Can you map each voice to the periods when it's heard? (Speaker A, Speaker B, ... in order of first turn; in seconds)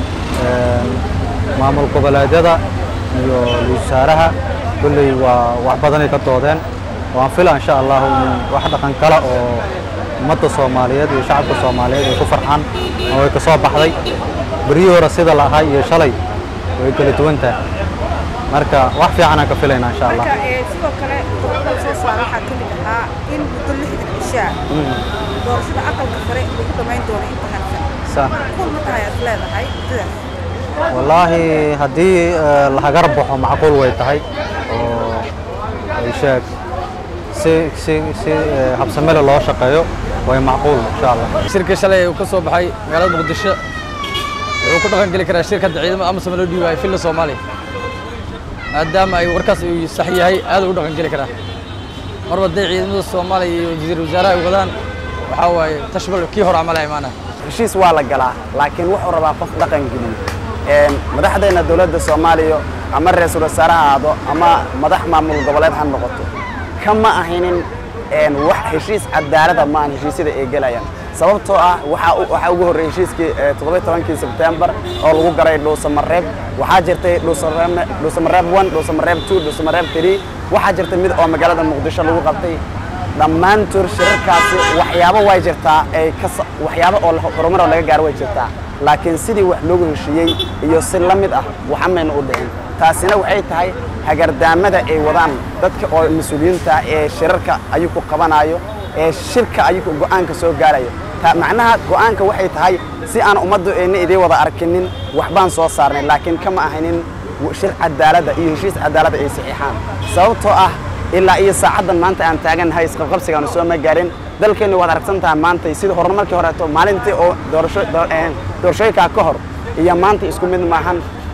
Speaker A: 0.4-1.0, 1.6-2.6, 3.1-6.6, 7.1-9.6, 10.2-13.9, 14.6-16.2, 16.8-17.6, 18.5-20.3, 24.7-25.0, 28.1-28.4, 30.9-35.3, 36.0-36.5, 37.3-41.3
Speaker B: 20.3-24.6, 25.4-30.2
Speaker C: 41.5-43.6, 44.6-47.4, 48.7-51.3, 52.3-54.7, 55.3-57.1
Speaker D: 57.4-66.3, 66.8-82.6, 83.2-121.0